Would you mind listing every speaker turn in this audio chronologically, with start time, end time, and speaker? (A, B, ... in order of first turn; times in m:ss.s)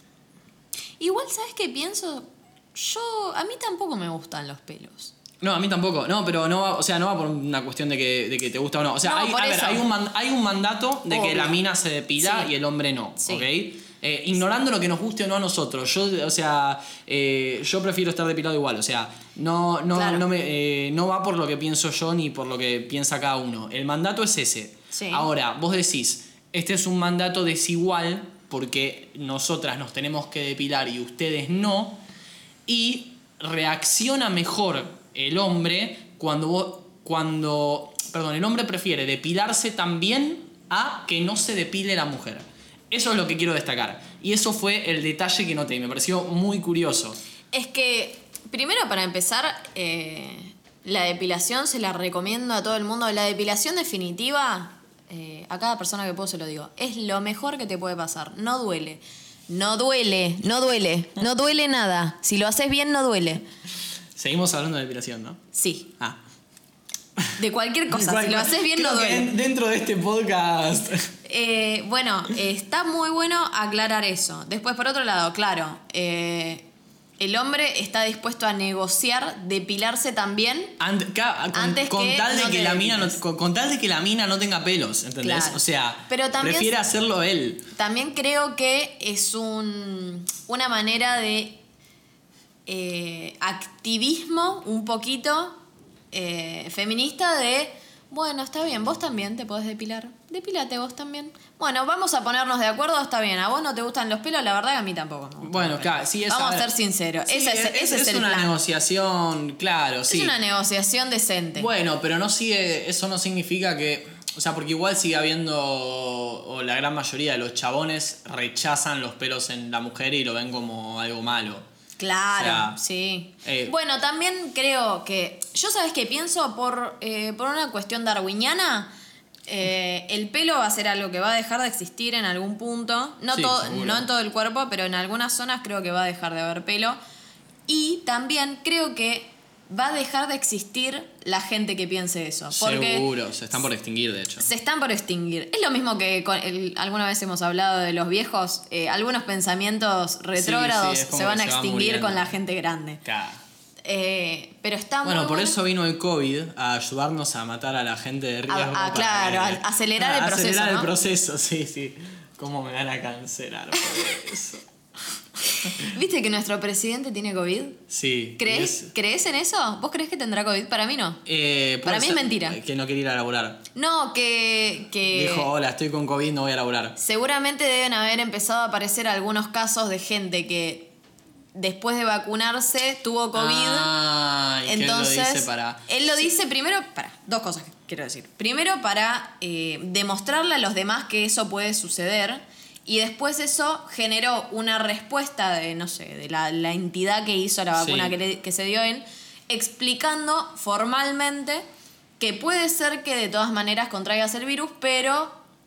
0:01.0-0:05.1 A
0:05.4-0:32.0 B
0:09.0-0:09.8 A
0:11.1-0:11.6 A
0:12.2-0:12.5 A
0:13.2-0:13.5 A
0:19.9-0:20.2 A
0:24.9-0:25.3 A
0:32.7-0:47.2 B
0:47.5-1:03.4 A
1:04.2-1:05.4 B
1:05.5-1:05.9 A
1:07.4-1:09.3 A
1:07.9-1:11.1 B
1:11.2-1:16.6 A
1:17.2-1:20.7 A
1:20.8-1:27.6 B
1:21.5-1:23.2 A
1:25.2-1:26.7 A
1:27.7-1:31.6 A
1:32.7-1:35.6 A
1:36.1-1:48.5 A
1:45.4-1:46.7 B
1:47.2-1:50.4 B
1:50.1-1:51.7 A
1:51.6-2:01.6 B
2:02.0-2:08.9 A
2:02.3-2:02.8 B
2:03.4-2:03.7 B
2:09.5-2:17.0 A
2:13.3-2:14.0 B
2:17.7-2:23.1 A
2:22.5-2:24.5 B
2:24.4-2:33.0 A
2:30.3-2:32.3 B
2:33.0-2:33.4 B
2:33.8-2:35.6 A
2:35.0-2:44.6 B
2:38.5-2:40.9 A
2:45.6-2:47.8 A
2:47.9-2:48.9 B
2:48.4-2:51.2 A
2:51.2-2:53.6 B
2:51.8-2:52.6 A
2:53.7-2:55.5 A
2:55.1-2:57.0 B
2:57.0-3:00.9 A
3:01.5-3:03.9 A
3:03.3-3:05.9 B
3:04.6-3:21.6 A
3:17.8-3:18.1 B
3:22.2-3:25.4 A